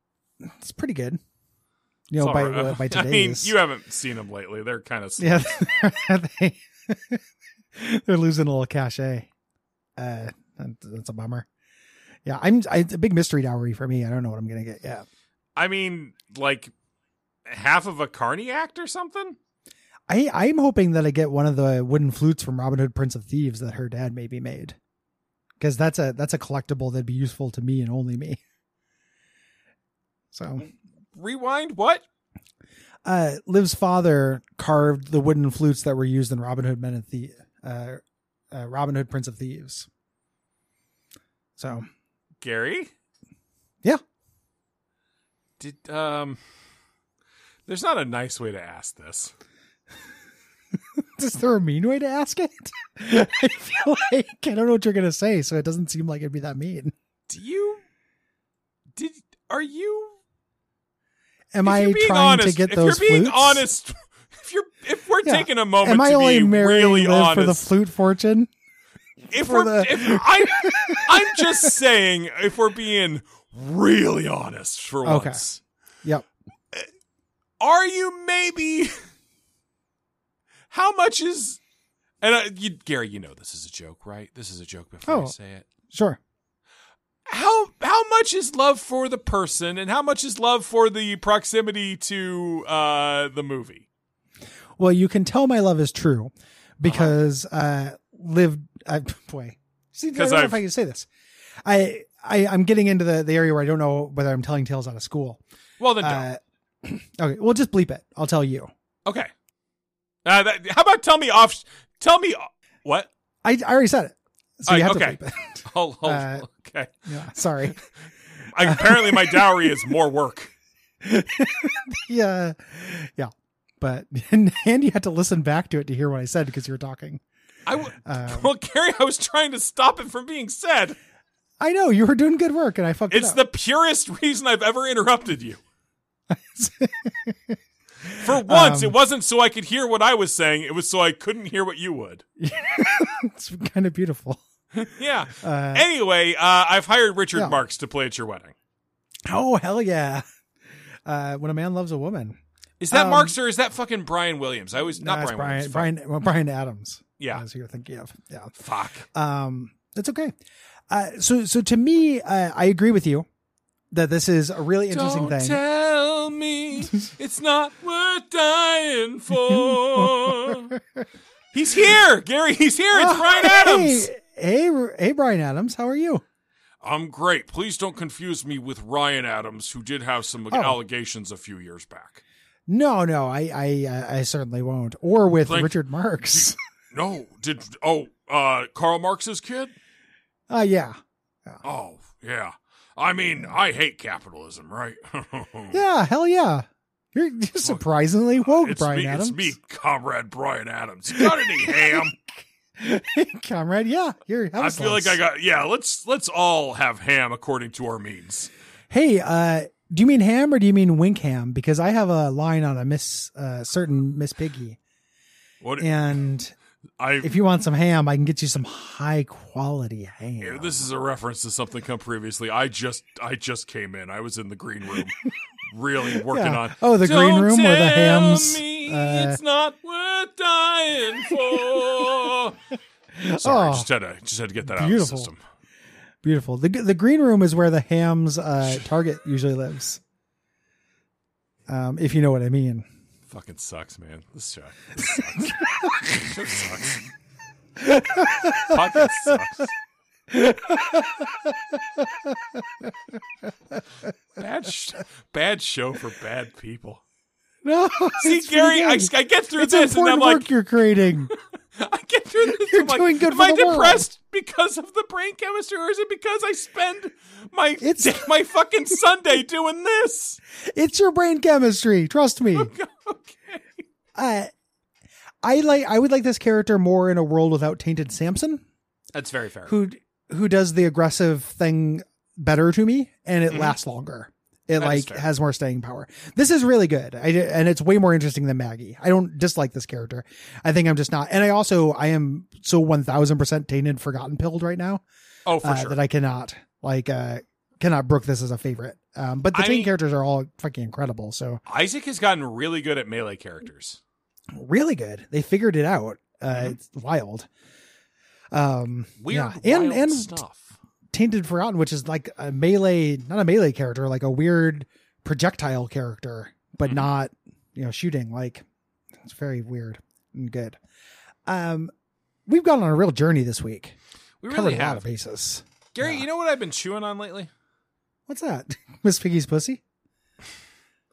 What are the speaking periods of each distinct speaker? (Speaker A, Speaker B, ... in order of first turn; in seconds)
Speaker A: 0.4-1.2, 2.1-3.5, 5.2-7.2, 7.7-9.3, 10.0-11.5, 12.2-15.0, 20.1-24.8, 25.6-28.4, 30.3-30.6, 33.0-38.0, 38.5-39.9, 41.6-41.9, 51.0-56.9, 61.5-63.6, 65.2-68.5, 69.4-71.7, 75.0-75.4, 85.0-85.3, 85.9-86.2, 94.8-101.1, 101.6-105.4, 106.0-108.7, 113.4-116.5, 117.1-117.8, 118.6-119.5, 121.0-127.2, 128.0-128.5, 131.6-133.4, 136.3-137.6, 138.1-138.9, 142.4-144.4, 145.3-145.8, 149.2-150.2, 151.1-152.4, 152.9-153.3, 154.9-158.5, 159.1-160.3, 160.9-163.3, 163.9-165.6, 169.5-170.8, 172.9-176.2, 180.5-180.8, 182.7-186.5, 190.5-191.6, 195.7-199.5, 201.1-205.2, 208.9-214.8, 215.8-216.5, 217.2-220.9, 226.1-229.4, 231.3-232.3, 233.1-233.9, 234.7-235.3, 236.2-240.0, 241.7-242.8, 247.8-249.3, 250.3-251.6, 257.6-261.3, 262.5-264.0, 267.8-268.3, 270.6-272.7, 274.1-274.5, 275.4-278.6, 279.6-295.0, 295.6-301.6, 304.5-307.5, 308.5-310.3, 311.1-318.6, 319.2-320.8, 321.4-321.9, 322.5-323.9, 324.5-326.2, 328.3-329.8
Speaker B: 2.2-5.6, 15.6-16.7, 17.5-19.4, 31.1-32.0, 42.4-42.9, 45.6-46.4, 47.6-49.3, 57.3-57.8, 59.0-60.2, 61.6-67.7, 69.3-75.6, 77.6-78.9, 80.7-81.6, 82.2-85.7, 87.3-93.8, 96.8-97.1, 100.1-100.6, 105.8-106.3, 110.2-113.1, 114.7-116.9, 118.4-120.5, 127.7-130.9, 133.1-135.6, 138.1-142.2, 144.9-148.5, 152.8-155.9, 157.2-157.4, 158.6-159.1, 164.9-170.7, 171.5-174.1, 176.8-182.2, 185.4-189.7, 191.6-195.8, 198.4-202.2, 204.6-208.5, 215.6-216.1, 217.0-217.4, 220.4-232.6, 233.2-235.4, 243.3-247.1, 248.6-249.7, 254.3-257.0, 258.2-260.5, 261.8-270.4, 272.5-273.8, 279.1-279.8, 283.5-283.8, 284.8-285.3, 295.4-296.0, 299.5-299.9, 301.6-304.0, 309.2-310.8, 324.4-325.1, 325.9-327.5